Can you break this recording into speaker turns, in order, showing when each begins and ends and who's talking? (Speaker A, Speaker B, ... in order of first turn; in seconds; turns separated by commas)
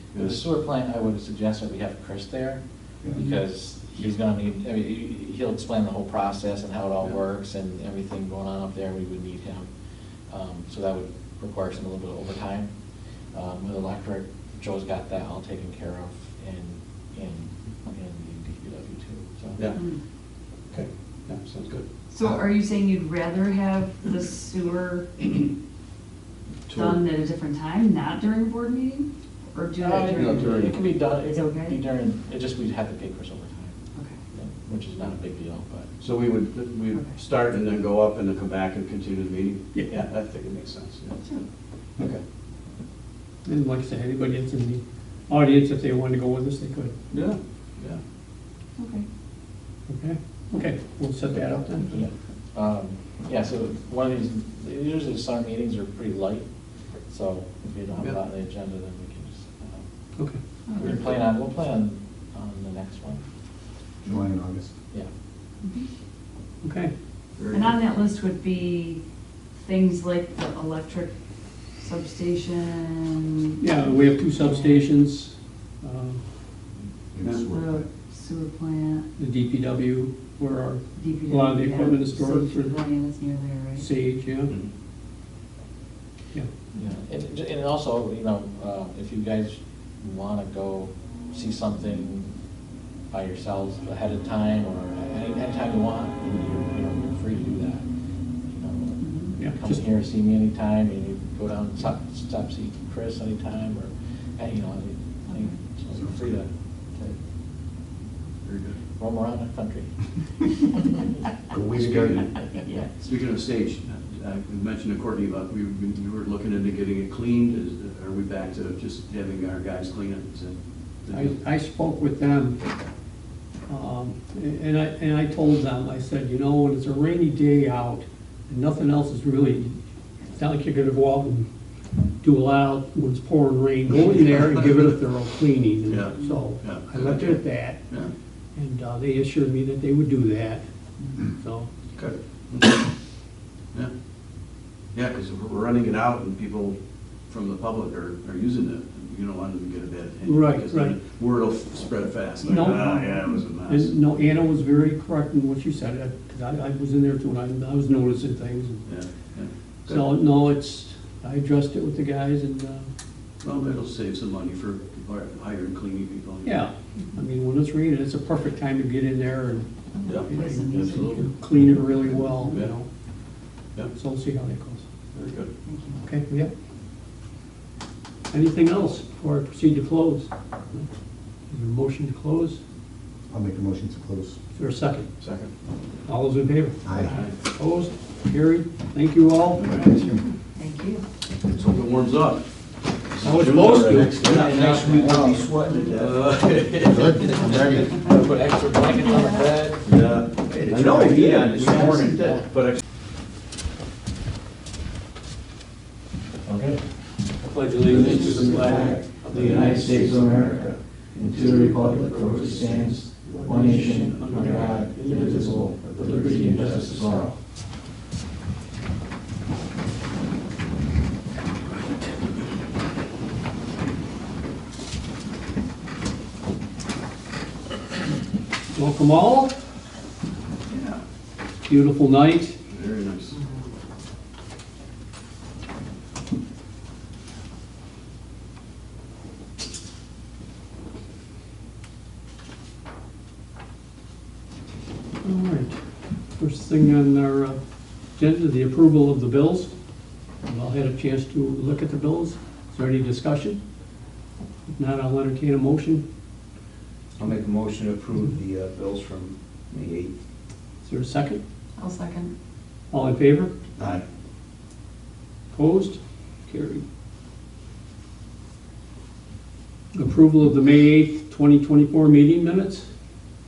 Speaker A: 0.1-0.5, Speaker B: 0.1-2.6, Speaker B: 3.1-9.7, Speaker B: 10.3-12.7, Speaker B: 13.3-19.8, Speaker C: 19.7-20.0, Speaker A: 20.7-21.8, Speaker C: 22.1-25.2, Speaker A: 26.7-27.0, Speaker C: 26.7-31.8, Speaker B: 29.8-33.8, Speaker A: 30.1-30.8, Speaker C: 33.9-34.2, Speaker B: 34.3-35.9, Speaker A: 36.0-41.2, Speaker C: 36.9-37.2, Speaker D: 39.7-40.0, Speaker D: 43.4-47.0, Speaker A: 47.1-48.0, Speaker C: 48.8-49.0, Speaker D: 49.9-51.9, Speaker B: 51.9-56.4, Speaker B: 57.1-59.8, Speaker C: 60.7-61.0, Speaker B: 60.8-63.2, Speaker A: 60.8-61.2, Speaker E: 64.0-64.7, Speaker D: 66.6-66.9, Speaker A: 67.4-67.8, Speaker C: 67.5-69.0, Speaker C: 69.5-71.1, Speaker C: 71.8-73.6, Speaker D: 73.6-76.2, Speaker C: 74.4-74.8, Speaker E: 77.1-77.9, Speaker C: 77.5-79.0, Speaker D: 79.2-82.8, Speaker C: 81.0-83.9, Speaker D: 83.8-84.5, Speaker B: 86.8-92.3, Speaker B: 93.1-97.8, Speaker B: 98.5-107.2, Speaker C: 99.0-99.3, Speaker D: 99.4-99.8, Speaker C: 105.3-105.6, Speaker E: 105.9-106.2, Speaker A: 108.4-108.8, Speaker B: 109.0-110.0, Speaker E: 111.5-112.3, Speaker A: 111.7-112.4, Speaker A: 113.0-121.3, Speaker D: 121.1-122.6, Speaker D: 123.7-129.8, Speaker D: 130.3-131.5, Speaker D: 132.2-137.8, Speaker A: 135.9-138.1, Speaker D: 138.5-140.6, Speaker D: 141.2-141.7, Speaker A: 141.9-142.8, Speaker A: 144.9-146.8, Speaker A: 147.3-153.9, Speaker D: 150.2-150.9, Speaker D: 152.4-158.8, Speaker A: 158.8-160.1, Speaker D: 159.9-162.9, Speaker A: 163.4-166.6, Speaker D: 166.4-172.9, Speaker C: 170.0-171.3, Speaker A: 170.1-171.7, Speaker A: 172.4-172.7, Speaker D: 173.9-174.9, Speaker A: 175.1-175.5, Speaker C: 175.7-176.0, Speaker D: 176.0-176.5, Speaker D: 178.3-180.9, Speaker D: 181.5-182.6, Speaker E: 183.3-184.4, Speaker D: 184.5-185.1, Speaker A: 185.2-185.5, Speaker D: 186.1-189.6, Speaker E: 186.8-187.2, Speaker A: 186.9-187.3, Speaker A: 189.5-190.0, Speaker C: 190.5-191.0, Speaker A: 191.4-192.4, Speaker A: 193.1-194.7, Speaker D: 193.2-194.3, Speaker F: 194.0-196.2, Speaker B: 194.2-195.7, Speaker A: 195.9-197.9, Speaker E: 196.9-198.0, Speaker B: 197.5-199.8, Speaker C: 198.8-199.6, Speaker A: 199.8-202.8, Speaker F: 200.3-202.4, Speaker B: 202.1-202.4, Speaker B: 206.4-206.8, Speaker D: 207.4-210.0, Speaker F: 207.9-212.9, Speaker B: 207.9-208.8, Speaker B: 209.3-217.3, Speaker A: 212.7-214.6, Speaker D: 213.3-217.3, Speaker F: 215.1-217.1, Speaker D: 228.7-229.6, Speaker A: 230.7-231.0, Speaker D: 231.6-232.6, Speaker A: 232.7-233.4, Speaker D: 245.2-247.6, Speaker D: 248.1-249.7, Speaker D: 250.4-253.6, Speaker D: 254.7-256.0, Speaker F: 257.2-260.1, Speaker D: 260.8-261.4, Speaker C: 261.8-262.3, Speaker D: 262.9-263.5, Speaker F: 263.8-264.0, Speaker D: 265.5-266.8, Speaker D: 269.9-272.9